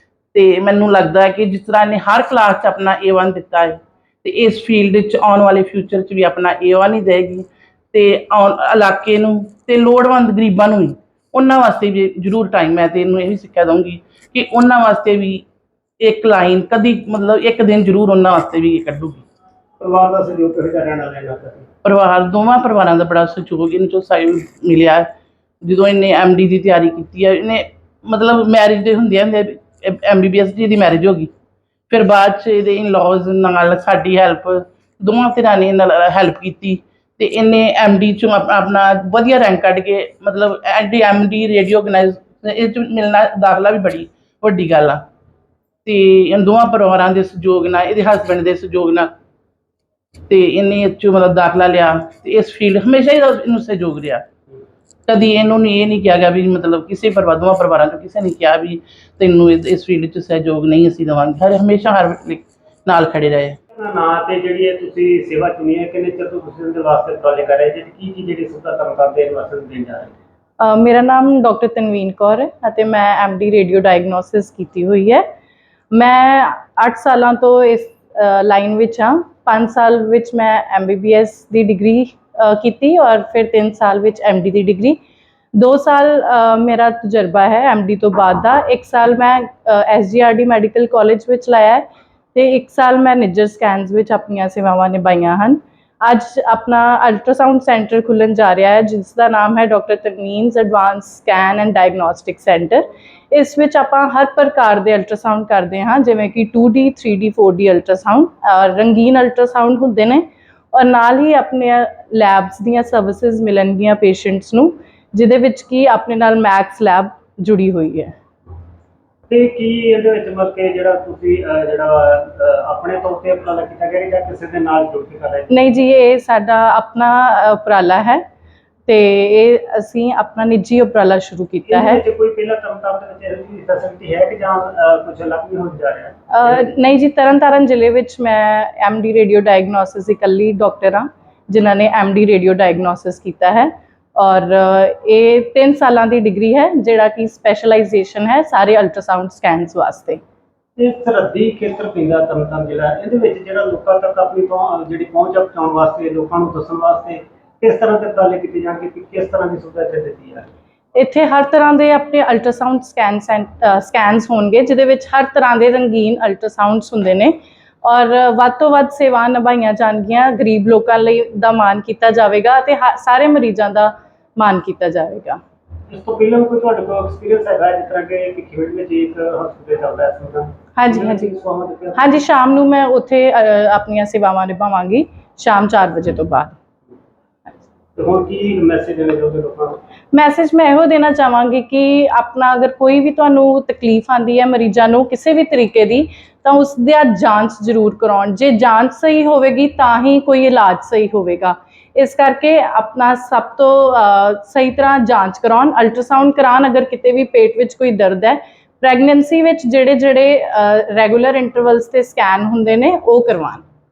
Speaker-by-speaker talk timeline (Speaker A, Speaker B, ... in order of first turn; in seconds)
Speaker A: 0.3-15.4, 16.0-19.2, 21.8-25.1, 25.6-31.3, 31.9-45.0, 45.9-49.1, 50.3-54.2, 55.1-63.6
Speaker B: 19.8-21.6, 63.7-70.1, 119.3-125.5, 131.7-136.7, 150.8-160.5, 175.9-182.1, 188.0-189.8
Speaker C: 70.6-75.2, 75.9-85.0, 85.5-118.1, 125.5-128.2, 128.9-132.0, 136.3-150.2, 160.9-175.4, 180.8-181.4, 181.9-186.6, 190.1-213.6